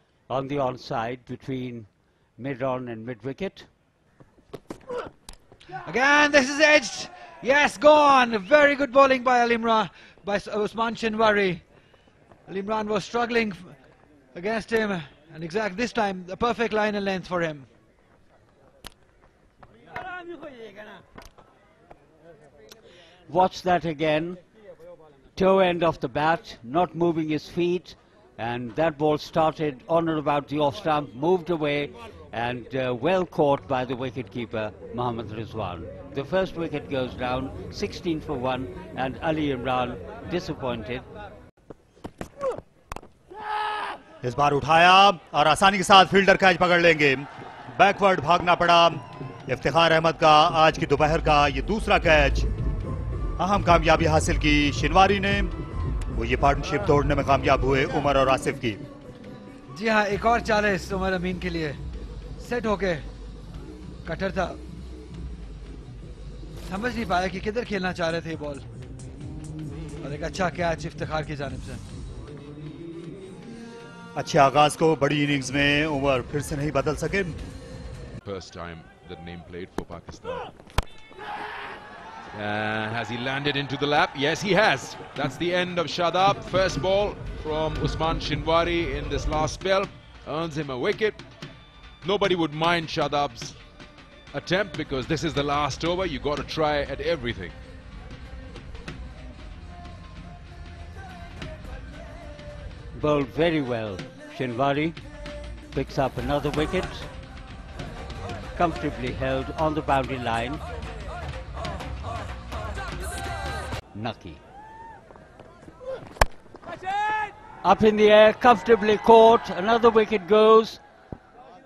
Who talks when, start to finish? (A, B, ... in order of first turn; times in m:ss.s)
0:00.3-0:03.7 A
0:05.8-0:11.6 B
0:12.5-0:13.7 B
0:14.3-0:17.6 B
0:23.3-0:24.4 A
0:25.3-0:41.1 A
0:44.2-0:52.5 C
0:53.4-0:55.5 C
0:56.2-0:58.8 C
0:59.7-1:01.8 B
1:02.4-1:03.0 B
1:04.0-1:04.6 B
1:06.7-1:08.6 B
1:10.0-1:11.8 B
1:14.2-1:17.4 C
1:18.2-1:20.5 D
1:22.3-1:31.2 D
1:32.0-1:33.6 D
1:34.3-1:37.5 D
1:42.9-1:45.0 A
1:45.7-1:47.1 A
1:48.5-1:50.6 A
1:53.9-1:54.4 A
1:57.6-2:00.8 A